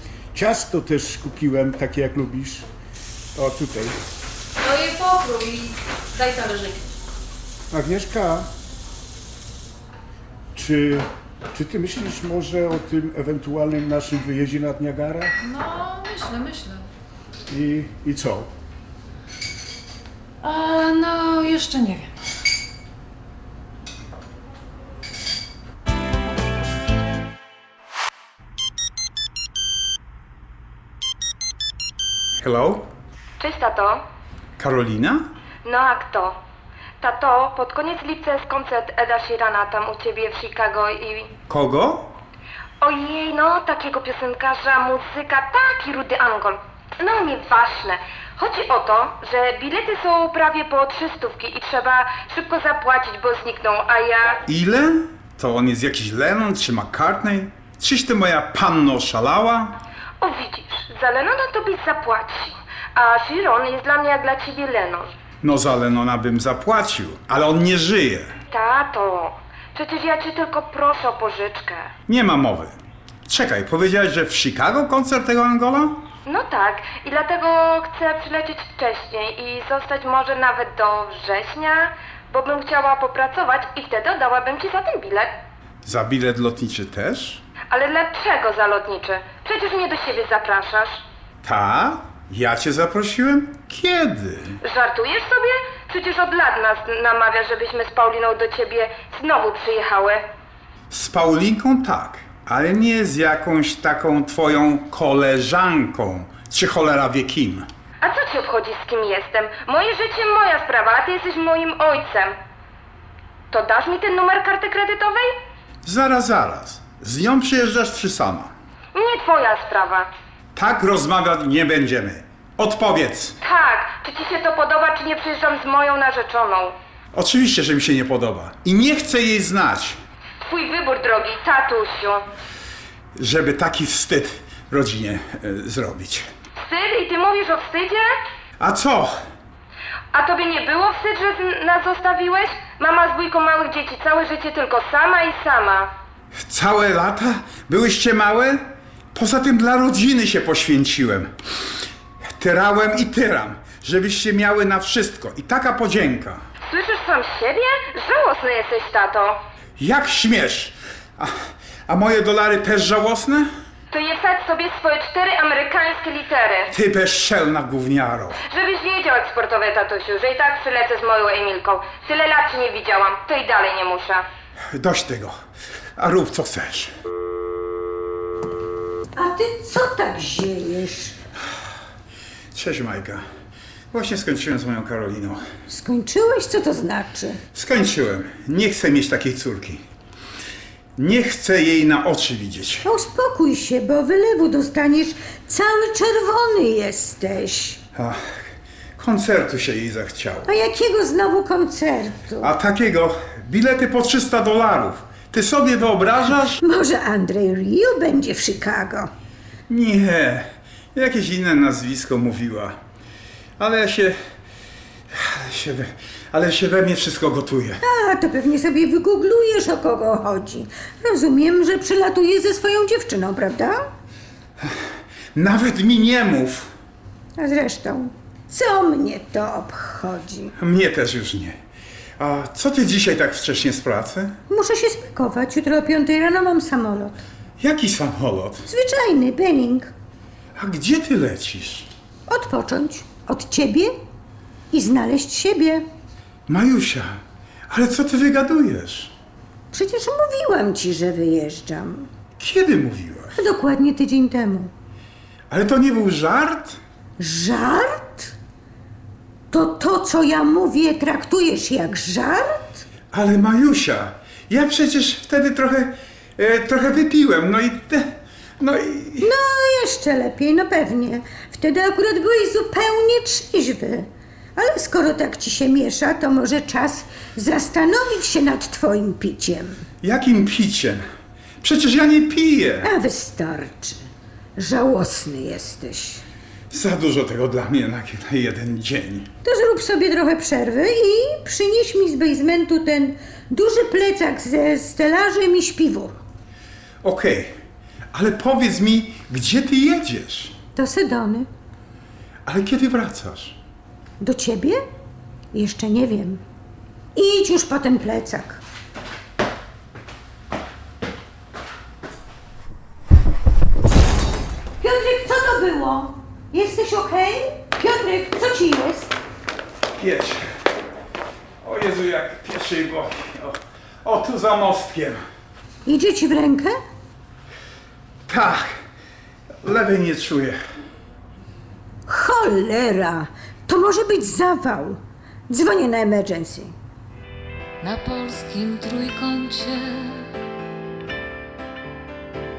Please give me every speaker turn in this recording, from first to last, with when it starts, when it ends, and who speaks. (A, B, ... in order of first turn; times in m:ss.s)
0:00.3-0:02.6 A
0:03.4-0:04.0 A
0:04.6-0:06.9 B
0:07.7-0:08.5 A
0:10.5-0:15.3 A
0:15.4-0:16.8 B
0:17.5-0:18.5 A
0:20.4-0:22.1 B
0:32.4-0:32.9 C
0:33.4-0:34.0 D
0:34.6-0:35.2 C
0:35.6-0:36.4 D
0:37.0-0:41.3 D
0:41.5-0:42.2 C
0:42.8-0:54.4 D
0:54.5-0:59.7 C
1:00.2-1:05.1 D
1:05.4-1:08.3 C
1:08.5-1:11.9 D
1:12.1-1:12.8 C
1:13.3-1:16.0 C
1:16.2-1:25.3 D
1:25.8-1:27.4 C
1:27.7-1:31.0 D
1:31.4-1:34.6 C
1:34.6-1:40.2 D
1:40.9-1:47.7 C
1:48.0-1:52.3 D
1:53.5-1:55.3 D
1:55.8-1:58.5 C
1:58.9-2:00.1 D
2:00.6-2:03.4 C
2:03.4-2:06.8 D
2:07.1-2:10.0 C
2:10.4-2:12.2 D
2:13.2-2:16.2 C
2:16.6-2:18.1 D
2:18.6-2:19.1 C
2:20.1-2:25.9 D
2:26.5-2:28.6 C
2:29.1-2:31.3 C
2:32.4-2:36.4 C
2:36.7-2:39.4 D
2:39.8-2:41.3 C
2:41.9-2:43.5 C
2:43.9-2:46.7 D
2:46.7-2:48.4 C
2:48.4-2:54.2 D
2:54.8-2:55.3 C
2:56.0-2:56.9 C
2:59.2-3:01.1 E
3:02.5-3:03.2 C
3:03.9-3:05.4 C
3:05.7-3:07.4 E
3:07.5-3:09.8 C
3:11.0-3:12.8 C
3:12.8-3:17.8 E
3:19.0-3:20.5 C
3:20.4-3:22.5 E
3:22.4-3:26.6 C
3:26.6-3:29.1 E
3:29.7-3:32.7 C
3:33.6-3:34.1 C
3:35.4-3:37.8 C
3:37.8-3:43.8 E
3:45.3-3:46.7 C
3:47.4-3:50.5 E
3:50.6-3:51.6 C
3:52.2-3:54.3 C
3:54.5-3:57.2 E
3:57.6-3:58.6 C
3:58.7-3:59.9 E
4:00.6-4:01.9 C
4:02.3-4:03.9 E
4:04.7-4:05.8 E
4:06.5-4:07.1 C
4:07.7-4:09.1 C
4:09.7-4:12.1 E
4:12.4-4:13.3 C
4:13.3-4:14.7 E
4:15.5-4:16.8 C
4:17.2-4:18.3 E
4:19.5-4:22.8 E
4:23.1-4:28.1 C
4:28.6-4:29.3 C
4:29.2-4:39.8 E
4:40.0-4:41.0 C
4:41.6-4:42.9 C
4:42.8-4:44.0 E
4:44.6-4:46.2 E
4:46.7-4:49.3 C
4:49.4-4:56.2 E
4:57.0-4:57.5 C
4:58.1-5:00.5 C
5:00.8-5:01.4 E
5:02.4-5:03.6 C
5:04.2-5:04.8 E
5:05.5-5:06.4 E
5:07.1-5:08.6 E
5:14.8-5:19.1 E
5:20.0-5:20.4 C
5:21.6-5:25.2 C
5:25.8-5:26.8 E
5:28.3-5:28.7 C
5:29.6-5:30.6 C
5:32.1-5:36.7 E
5:37.8-5:40.3 B